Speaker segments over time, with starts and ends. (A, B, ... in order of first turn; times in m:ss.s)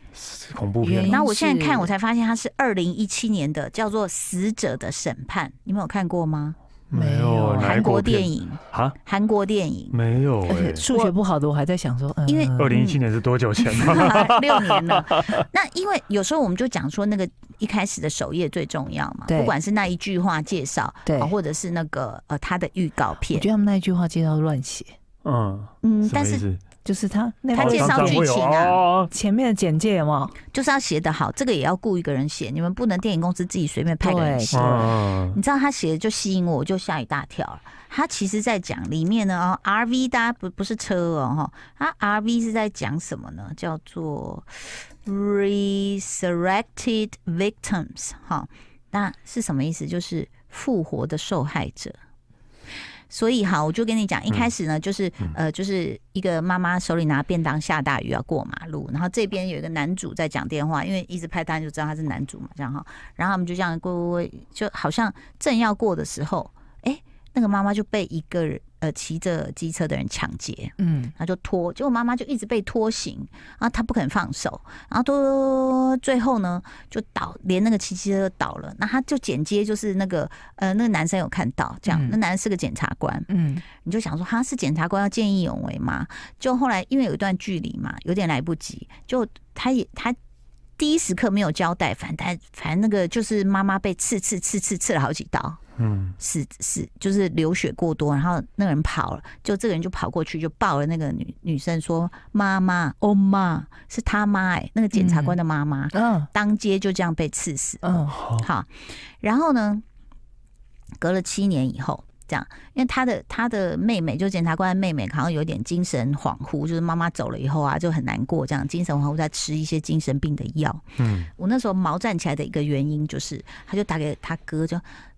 0:00.2-0:01.2 A
0:00.8-0:06.6 B
0:00.9-0:01.9 C
0:06.9-0:09.0 A
0:06.9-0:07.9 C
0:07.6-0:10.0 B
0:09.9-0:11.1 A
0:10.5-0:12.8 C
0:12.3-0:13.0 B
0:12.6-0:15.4 A
0:13.6-0:23.5 B
0:19.3-0:19.5 C
0:21.0-0:21.3 C
0:23.3-0:24.9 C
0:25.2-0:26.6 A
0:25.8-0:26.4 B
0:26.8-0:28.3 C
0:27.5-0:28.8 B
0:27.5-0:29.1 A
0:29.1-0:30.4 C
0:30.5-0:52.0 B
0:34.0-0:34.9 C
0:34.5-0:35.4 A
0:53.1-1:23.3 B
1:10.8-1:11.1 C
1:21.9-1:22.2 C
1:23.3-1:23.6 C
1:23.8-1:30.2 B
1:30.8-1:35.6 B
1:35.8-1:36.2 A
1:36.2-1:49.8 B
1:44.9-1:45.4 C
1:45.9-1:46.3 C
1:47.8-1:48.2 C
1:48.1-1:48.5 A
1:51.0-2:04.8 B
2:01.0-2:01.3 A